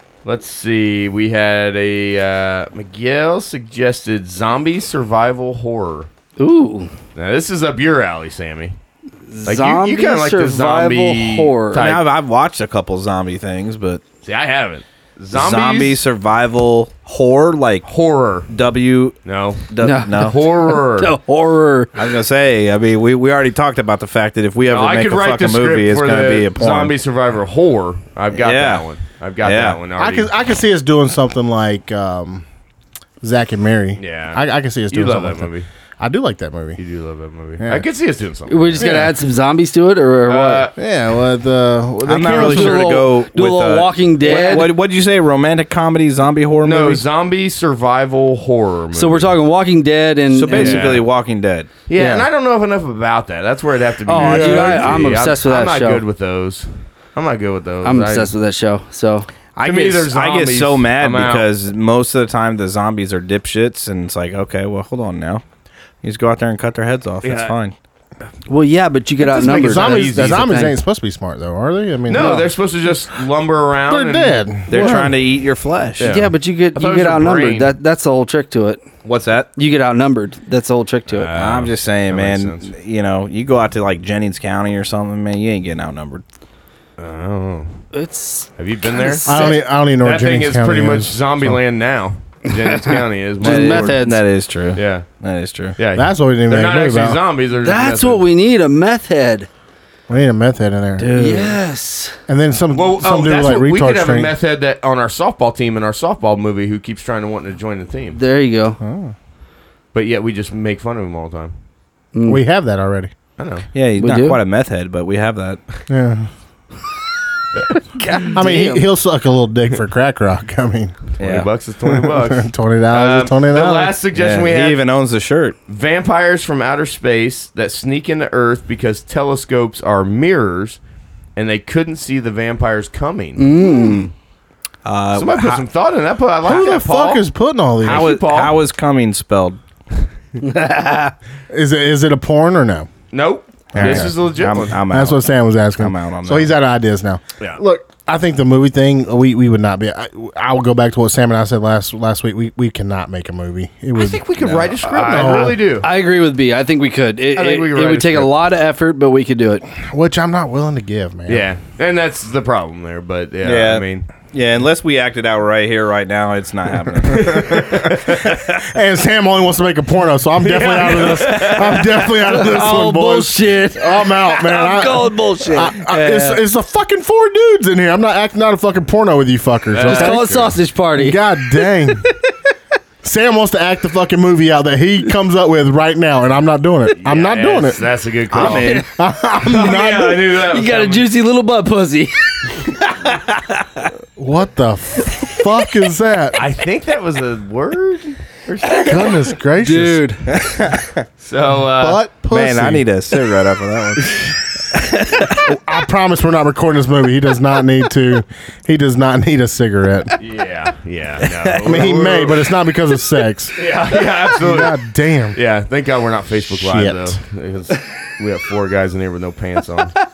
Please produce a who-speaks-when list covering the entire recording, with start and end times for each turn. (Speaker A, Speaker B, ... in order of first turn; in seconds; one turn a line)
Speaker A: 0.2-6.1
Speaker B: 6.4-6.9
Speaker A: 7.2-8.8
Speaker B: 9.3-11.8
Speaker A: 9.5-12.1
Speaker C: 11.8-14.0
Speaker A: 14.3-16.0
Speaker C: 15.3-17.9
Speaker A: 17.9-18.5
Speaker C: 18.5-20.4
Speaker A: 19.2-21.2
Speaker B: 19.8-21.9
Speaker C: 21.9-26.9
Speaker A: 24.7-30.3
Speaker C: 28.3-28.9
Speaker C: 29.4-29.8
Speaker D: 30.0-32.5
Speaker D: 33.2-36.8
Speaker A: 34.0-35.7
Speaker A: 36.8-39.0
Speaker D: 37.6-37.9
Speaker B: 38.5-40.7
Speaker D: 38.8-39.1
Speaker A: 40.3-40.8
Speaker D: 40.8-42.9
Speaker C: 42.1-47.0
Speaker B: 42.2-44.7
Speaker A: 46.6-49.4
Speaker B: 48.9-51.0
Speaker C: 50.3-51.7
Speaker A: 50.5-51.0
Speaker A: 51.9-58.3
Speaker B: 52.0-52.3
Speaker B: 54.1-56.0
Speaker D: 54.2-55.0
Speaker B: 57.8-59.3
Speaker C: 59.5-65.4
Speaker A: 59.6-61.5
Speaker C: 66.0-67.8
Speaker A: 67.2-67.5
Speaker B: 68.5-70.8
Speaker A: 69.2-70.5
Speaker D: 69.4-72.5
Speaker A: 72.1-74.5
Speaker B: 72.2-72.4
Speaker D: 73.9-75.2
Speaker C: 74.7-76.1
Speaker A: 76.0-77.7
Speaker B: 76.0-78.8
Speaker C: 79.0-79.5
Speaker B: 79.6-81.4
Speaker A: 81.1-82.7
Speaker C: 81.3-86.2
Speaker A: 87.0-87.8
Speaker B: 87.9-89.5
Speaker A: 88.6-94.0
Speaker D: 89.2-91.6
Speaker B: 92.5-94.2
Speaker C: 93.4-95.8
Speaker A: 94.8-95.1
Speaker A: 95.8-98.2
Speaker D: 96.0-97.2
Speaker B: 97.6-99.5
Speaker D: 100.1-101.6
Speaker B: 101.0-102.2
Speaker D: 102.3-104.3
Speaker A: 102.7-108.2
Speaker B: 108.1-108.8
Speaker D: 108.8-109.1
Speaker A: 109.9-111.5
Speaker B: 112.1-112.4
Speaker D: 112.2-113.1
Speaker A: 113.4-113.7
Speaker C: 113.7-115.6
Speaker B: 114.0-114.4
Speaker D: 115.9-116.3
Speaker B: 117.9-118.8
Speaker D: 118.3-121.0
Speaker A: 121.2-124.8
Speaker C: 121.2-121.5
Speaker D: 121.9-123.9
Speaker C: 124.1-125.6
Speaker A: 125.7-130.8
Speaker A: 131.4-133.6
Speaker B: 133.4-134.1
Speaker C: 134.8-135.6
Speaker A: 135.1-137.3
Speaker D: 136.5-138.1
Speaker A: 137.8-138.6
Speaker C: 137.8-139.6
Speaker B: 140.4-141.1
Speaker D: 141.5-142.9
Speaker A: 143.1-144.8
Speaker C: 143.8-146.6
Speaker D: 143.8-155.6
Speaker A: 154.0-155.9
Speaker C: 154.4-154.7
Speaker B: 155.1-159.7
Speaker A: 157.4-158.3
Speaker D: 159.8-161.5
Speaker A: 161.3-164.1
Speaker C: 163.4-168.6
Speaker D: 167.1-182.1
Speaker A: 167.5-168.2
Speaker A: 170.4-172.1
Speaker B: 172.2-176.4
Speaker A: 179.7-180.4
Speaker B: 179.8-181.9
Speaker D: 183.0-187.8
Speaker A: 186.9-188.9
Speaker C: 188.3-188.9
Speaker B: 188.4-188.9
Speaker D: 188.8-190.3
Speaker B: 189.4-192.5
Speaker A: 189.5-191.1
Speaker C: 192.9-193.9
Speaker D: 194.2-196.4
Speaker A: 196.3-199.2
Speaker B: 198.7-200.3
Speaker D: 198.9-200.0
Speaker C: 200.3-201.0
Speaker A: 201.2-202.0
Speaker D: 201.8-202.9
Speaker C: 202.3-205.5
Speaker D: 205.4-210.2
Speaker A: 210.2-212.5
Speaker C: 211.2-211.8
Speaker D: 211.6-213.6
Speaker A: 213.6-214.8
Speaker D: 214.4-215.4
Speaker A: 215.3-220.0
Speaker D: 216.5-217.2